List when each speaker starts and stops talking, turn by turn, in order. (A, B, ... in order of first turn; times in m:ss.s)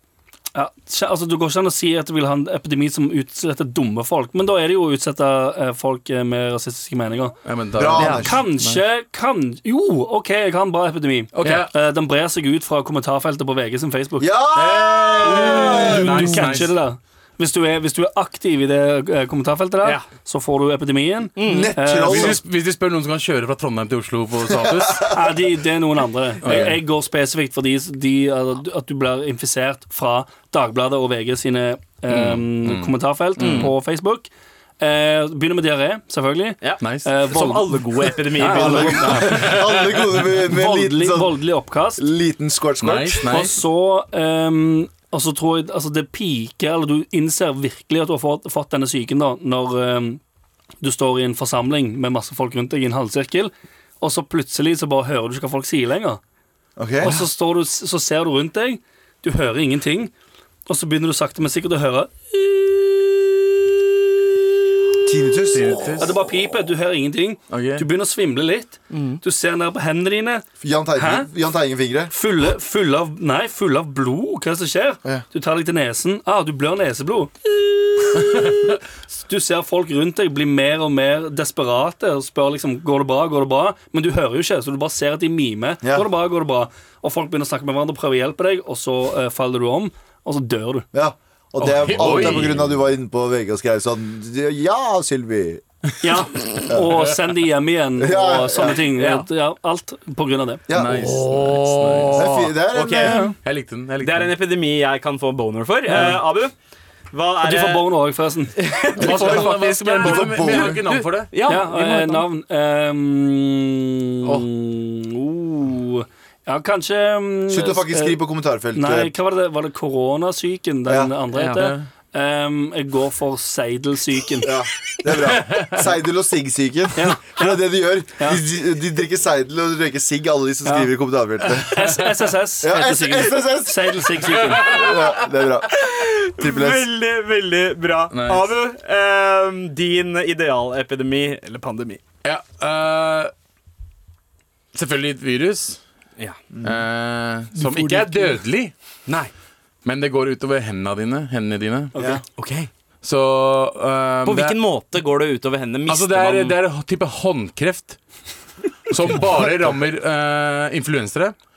0:00.5-0:07.4 A
0:07.4-0:08.8 B
0:07.8-0:08.4 C
0:08.0-0:08.2 D
0:08.0-0:14.3 A
0:11.3-0:11.7 D
0:11.4-0:11.7 B
0:14.2-0:16.3 C
0:14.6-0:16.8 B
0:15.2-0:22.4 A
0:21.4-0:21.7 D
0:21.4-0:22.4 C
0:22.0-0:25.2 B
0:24.6-0:25.3 C
0:25.1-0:39.6 A
0:26.4-0:26.8 B
0:32.1-0:33.7 B
0:33.4-0:33.7 D
0:36.6-0:39.6 D
0:36.8-0:37.1 B
0:38.5-0:41.4 C
0:39.2-0:40.3 B
0:40.3-0:42.1 A
0:42.0-0:43.3 C
0:42.8-0:43.6 B
0:43.3-0:50.2 A
0:50.8-0:56.2 A
0:56.8-0:57.3 C
0:57.0-1:00.1 A
1:00.7-1:03.8 A
1:05.0-1:06.0 C
1:05.5-1:06.1 B
1:05.9-1:10.4 A
1:07.5-1:07.9 B
1:08.9-1:09.2 D
1:10.6-1:12.1 C
1:11.0-1:11.3 A
1:12.1-1:30.9 A
1:25.8-1:26.1 C
1:30.9-1:35.6 C
1:31.6-1:32.7 B
1:32.1-1:32.4 A
1:36.0-1:40.7 A
1:36.7-1:37.0 C
1:38.0-1:38.9 C
1:38.9-1:39.3 D
1:40.7-1:41.2 C
1:40.7-1:42.3 B
1:40.9-1:43.2 D
1:42.1-1:43.3 C
1:43.0-1:43.4 A
1:43.4-1:44.4 B
1:44.0-1:46.5 D
1:45.9-1:46.2 A
1:47.1-1:47.9 D
1:47.4-1:48.6 A
1:48.6-1:52.3 D
1:49.0-1:51.3 B
1:49.0-1:50.8 C
1:51.4-1:58.2 A
1:57.5-1:59.1 C
1:58.8-2:04.5 A
2:00.9-2:01.1 C
2:01.3-2:01.7 D
2:01.5-2:01.8 B
2:04.4-2:12.1 C
2:05.3-2:05.8 B
2:07.0-2:07.6 A
2:11.5-2:14.8 A
2:12.6-2:16.9 C
2:14.2-2:15.3 B
2:15.7-2:22.0 D
2:18.1-2:18.5 B
2:22.2-2:23.3 B
2:24.7-2:25.8 B
2:26.5-2:26.8 C
2:26.6-2:28.7 B
2:27.6-2:28.3 A
2:29.8-2:31.9 B
2:32.0-2:32.2 A
2:32.0-2:32.2 C
2:32.4-2:32.7 D
2:33.0-2:34.6 B
2:34.2-2:36.6 D
2:35.9-2:38.0 B
2:38.9-2:41.3 B